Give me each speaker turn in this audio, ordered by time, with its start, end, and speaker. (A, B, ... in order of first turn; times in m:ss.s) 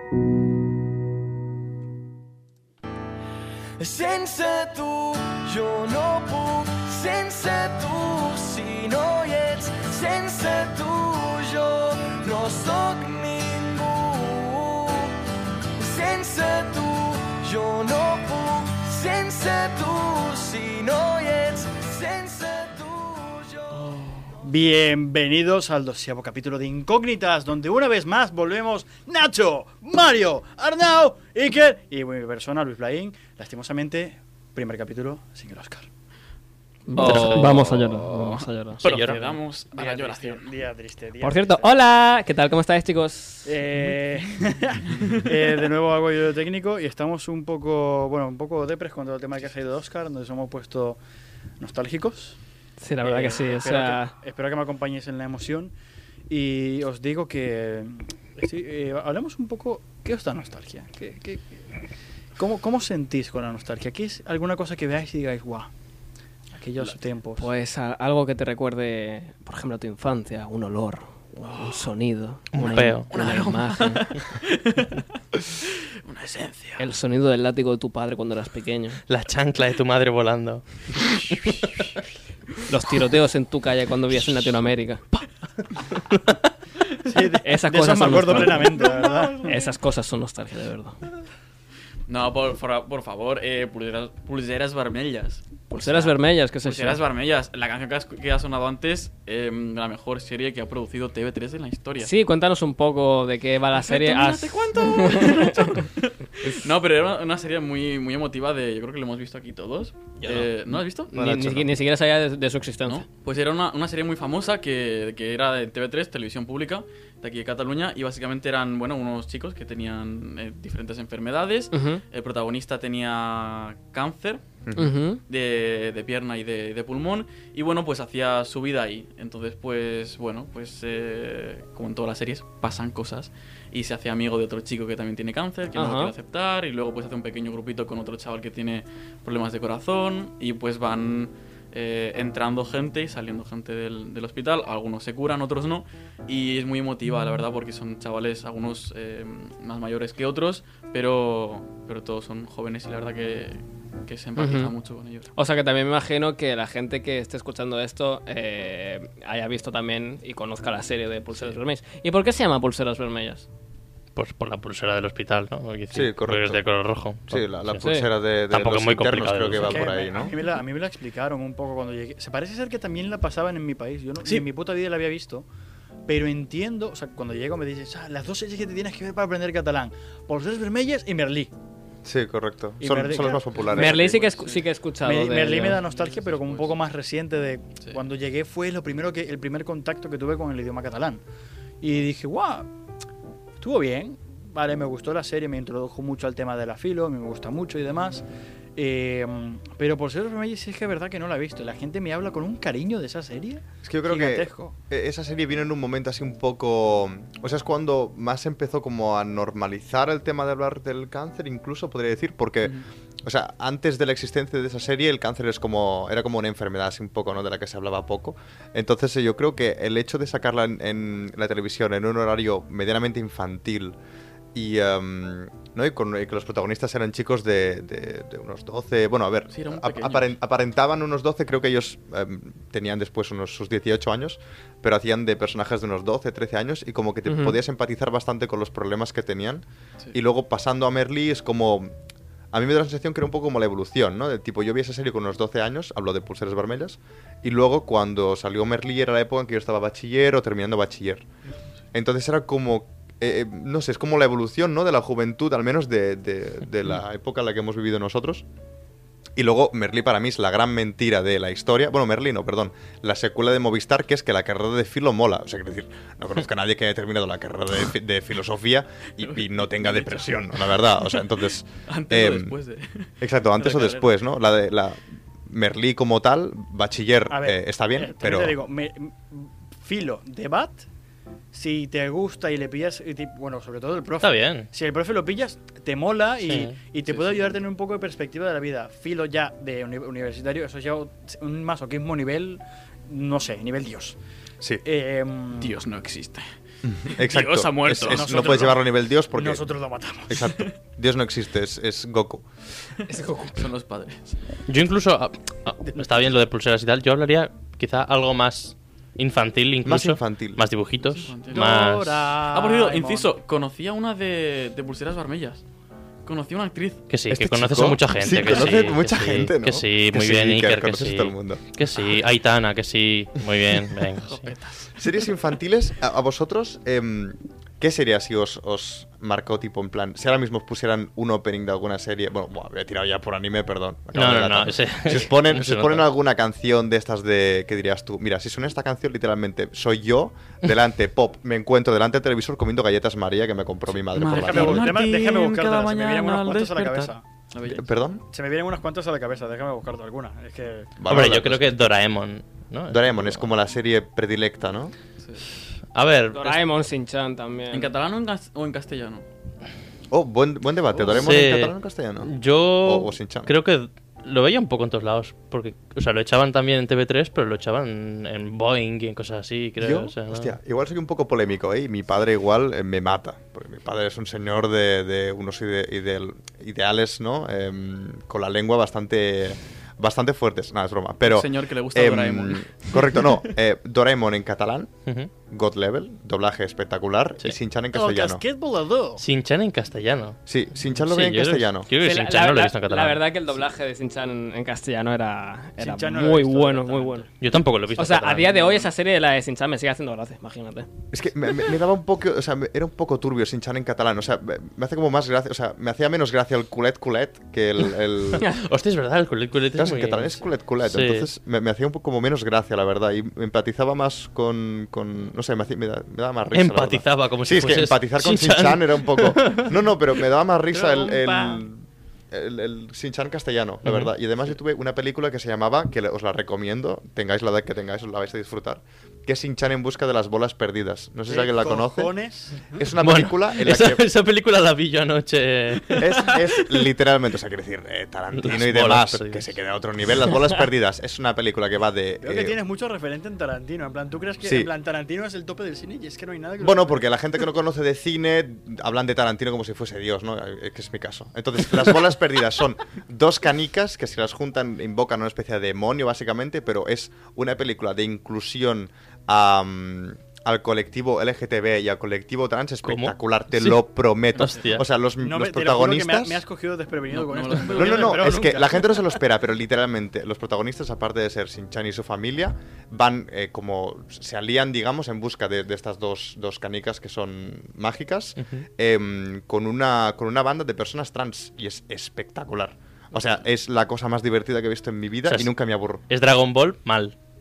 0:03.8-0:15.1 A
0:15.8-0:23.9 A
0:24.4-0:35.9 B
0:36.9-0:38.8 C
0:36.9-0:37.8 D
0:37.0-0:40.5 E
0:38.8-0:39.3 D
0:39.7-0:41.7 B
0:41.2-0:43.5 C
0:43.4-0:51.0 B
0:44.9-0:45.3 E
0:51.6-0:52.4 B
0:52.8-0:54.1 C
0:53.0-0:55.7 B
0:56.3-1:01.6 B
1:02.4-1:05.7 B
1:06.5-1:07.5 B
1:07.4-1:14.2 C
1:12.5-1:13.2 D
1:13.1-1:15.0 E
1:16.0-1:16.9 E
1:16.8-1:19.0 C
1:19.1-1:21.7 D
1:22.7-1:25.0 C
1:27.0-1:29.5 B
1:27.4-1:31.0 C
1:28.9-1:29.6 E
1:32.1-1:42.1 E
1:35.7-1:37.0 C
1:42.0-1:45.8 C
1:43.7-1:51.4 E
1:51.1-1:53.0 C
1:51.1-1:51.6 F
1:52.8-2:04.4 E
2:01.7-2:02.0 C
2:04.6-2:04.9 F
2:04.8-2:05.2 C
2:05.3-2:35.3 E
2:15.7-2:16.1 C
2:34.4-2:34.7 C
2:35.3-2:43.4 C
2:44.1-2:49.9 D
2:45.9-2:46.6 F
2:47.3-2:50.3 F
2:49.6-2:55.4 B
2:56.1-3:01.5 B
3:02.0-3:04.1 F
3:02.8-3:03.8 B
3:03.7-3:05.8 C
3:03.7-3:04.7 E
3:05.0-3:11.2 B
3:05.8-3:06.8 E
3:11.8-3:12.7 B
3:13.6-3:18.2 B
3:18.8-3:24.7 B
3:23.8-3:44.0 F
3:44.5-4:01.9 F
3:49.5-3:50.3 E
4:02.5-4:11.2 F
4:11.9-4:18.4 F
4:19.4-4:32.6 F
4:29.2-4:31.3 E
4:31.9-4:33.1 E
4:33.2-4:38.6 F
4:33.6-4:34.0 B
4:37.3-4:40.8 B
4:41.5-4:54.2 B
4:44.2-4:44.7 D
4:46.4-4:46.8 D
4:47.1-4:47.5 E
4:54.8-4:55.8 B
4:55.6-4:56.5 E
4:56.8-4:59.7 F
4:57.1-4:58.6 E
4:58.0-5:00.6 B
5:00.3-5:02.4 F
5:03.1-5:03.6 B
5:03.5-5:04.4 E
5:04.7-5:12.4 D
5:09.8-5:10.7 F
5:11.0-5:11.8 E
5:11.5-5:13.3 B
5:12.4-5:15.6 E
5:16.2-5:17.0 E
5:17.1-5:24.5 D
5:17.3-5:22.2 F
5:24.2-5:24.9 E
5:25.0-5:45.0 F
5:34.1-5:36.0 D
5:44.1-5:47.8 E
5:44.3-5:47.2 B
5:47.6-5:48.2 F
5:48.3-5:50.9 B
5:51.0-5:51.9 F
5:51.1-5:53.4 D
5:52.9-5:54.9 F
5:55.2-5:55.4 E
5:55.9-5:56.7 D
5:56.3-5:57.9 C
5:57.7-5:59.2 E
6:00.1-6:03.5 F
6:00.9-6:01.3 E
6:01.1-6:10.5 D
6:09.8-6:24.9 F
6:21.2-6:23.5 E
6:25.5-6:28.4 F
6:27.9-6:29.2 B
6:29.2-6:33.2 D
6:30.5-6:31.9 F
6:32.0-6:37.3 C
6:35.8-6:37.3 B
6:37.4-6:38.8 D
6:37.9-6:40.9 C
6:41.1-6:48.5 F
6:48.4-6:51.3 D
6:49.7-7:12.1 F
6:56.5-6:59.7 D
7:00.7-7:01.6 B
7:03.8-7:04.1 D
7:11.3-7:12.8 B
7:12.7-7:14.1 F
7:13.0-7:16.4 D
7:16.0-7:22.6 F
7:18.3-7:19.5 D
7:22.2-7:27.0 B
7:24.4-7:24.7 F
7:26.6-7:46.4 F
7:42.8-7:43.8 D
7:44.3-7:44.8 D
7:45.2-7:49.2 B
7:47.1-7:48.3 E
7:47.7-8:06.0 F
8:06.1-8:07.1 D